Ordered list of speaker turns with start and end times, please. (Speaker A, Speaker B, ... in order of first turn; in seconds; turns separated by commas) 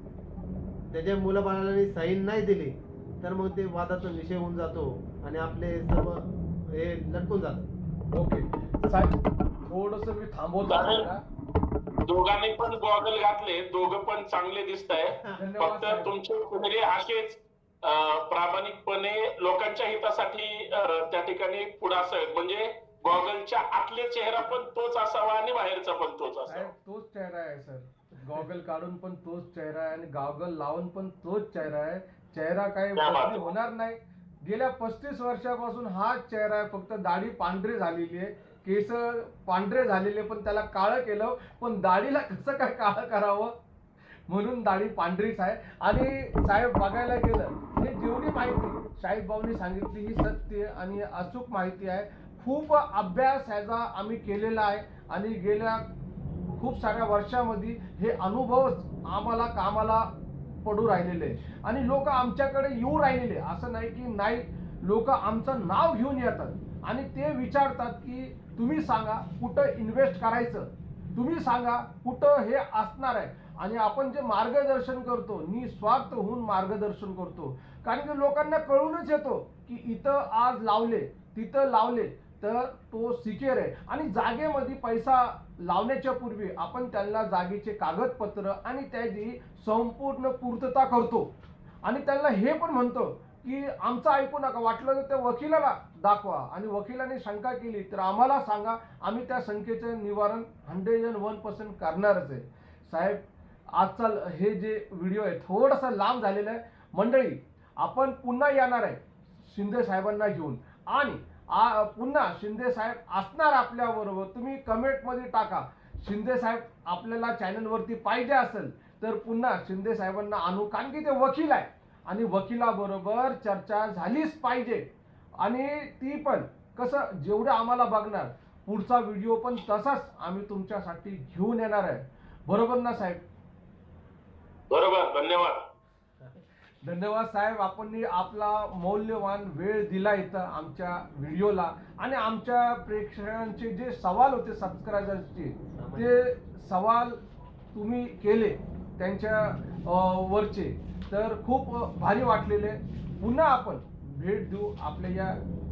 Speaker A: 0.9-7.7, Speaker B: 8.1-11.2, Speaker C: 10.6-11.1, Speaker C: 12.1-26.7, Speaker B: 15.3-16.1, Speaker B: 26.5-43.5, Speaker C: 33.0-33.5, Speaker B: 44.3-55.9, Speaker B: 56.6-60.1, Speaker B: 60.6-91.3, Speaker B: 91.8-133.2, Speaker C: 134.7-135.7, Speaker B: 136.8-147.2, Speaker A: 145.7-146.3, Speaker B: 147.7-155.4